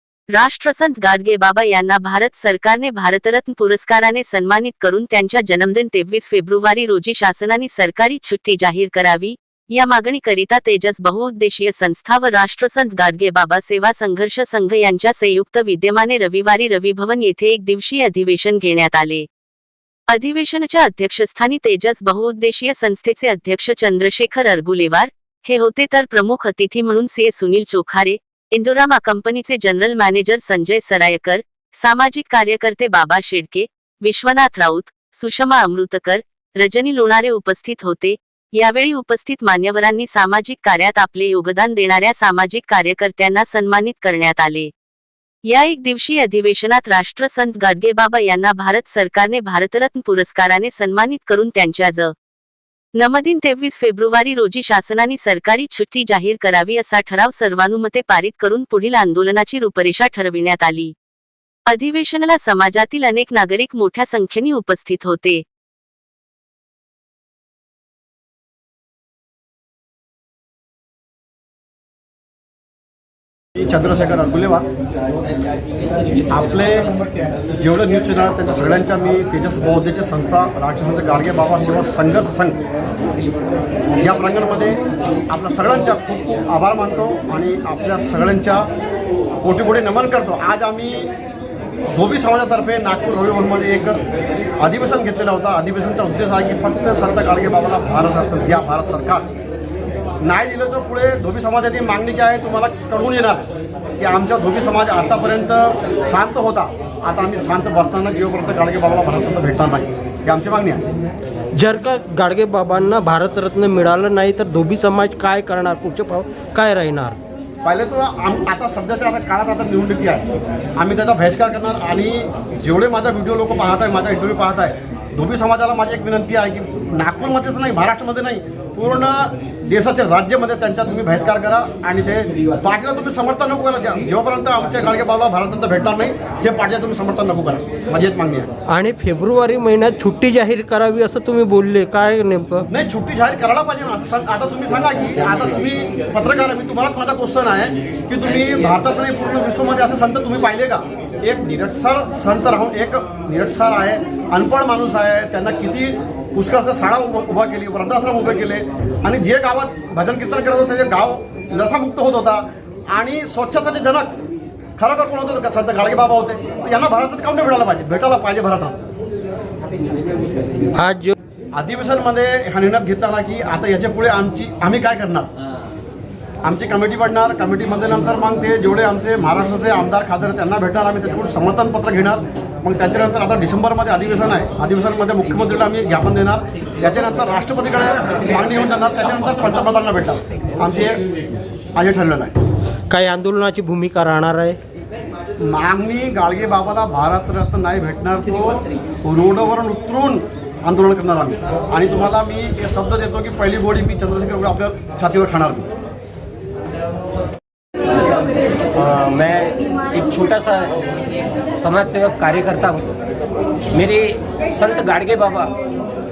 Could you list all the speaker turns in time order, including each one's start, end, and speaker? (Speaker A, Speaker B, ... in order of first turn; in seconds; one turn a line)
Speaker A: 0.3-19.2
Speaker A: 20.1-44.7
Speaker A: 45.5-52.1
Speaker A: 53.0-60.9
Speaker A: 61.7-65.4
Speaker B: 73.6-74.7
Speaker B: 76.3-76.9
Speaker B: 77.6-82.6
Speaker B: 84.0-84.8
Speaker B: 85.3-88.7
Speaker B: 89.4-91.1
Speaker B: 91.9-94.0
Speaker B: 94.6-99.3
Speaker B: 100.2-103.5
Speaker B: 104.0-110.8
Speaker C: 111.5-117.2
Speaker B: 117.6-120.3
Speaker B: 120.8-138.5
Speaker C: 138.7-142.7
Speaker B: 142.7-164.2
Speaker B: 164.8-168.8
Speaker C: 170.8-171.1
Speaker B: 171.5-175.3
Speaker B: 176.4-191.0
Speaker B: 191.8-192.3
Speaker C: 192.9-194.6
Speaker B: 195.4-205.7
Speaker D: 208.7-210.7
Speaker D: 211.5-212.9
Speaker D: 213.7-215.5